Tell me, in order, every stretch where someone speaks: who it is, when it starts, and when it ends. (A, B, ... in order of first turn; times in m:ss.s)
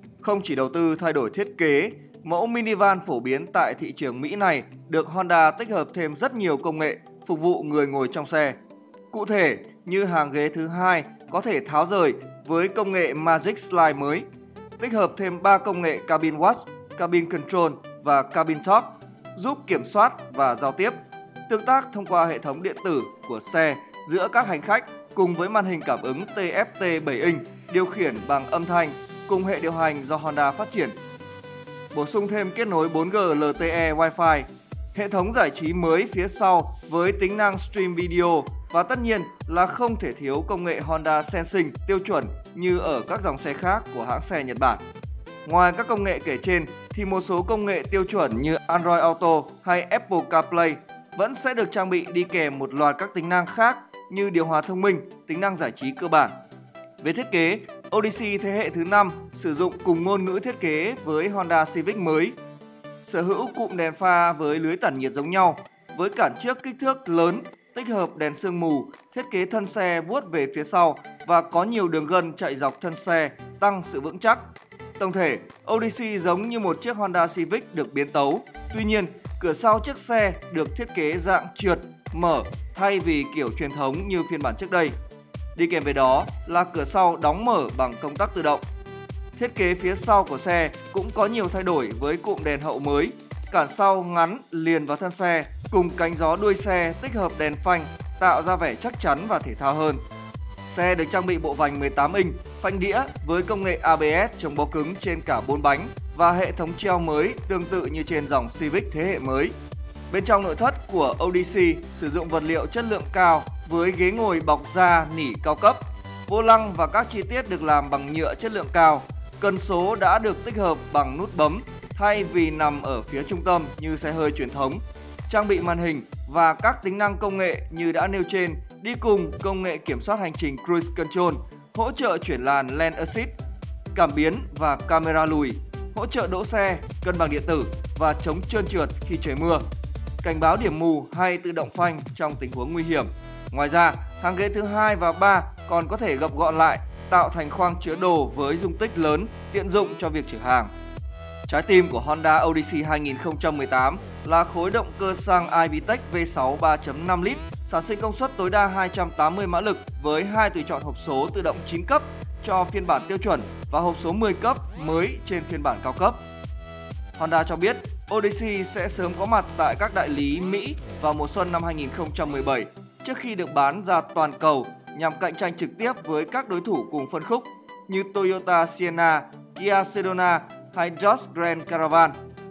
0:00.2-0:08.6 A
0:09.1-0:14.3 A
0:14.8-0:21.0 A
0:21.5-0:31.0 A
0:31.9-0:44.8 A
0:45.4-0:56.4 A
0:57.0-1:02.4 A
1:03.0-1:25.0 A
1:25.6-1:28.6 A
1:29.4-1:40.0 A
1:40.7-1:49.6 A
1:50.1-2:13.4 A
2:13.9-2:19.7 A
2:20.2-2:30.7 A
2:31.5-2:46.2 A
2:47.2-3:02.2 A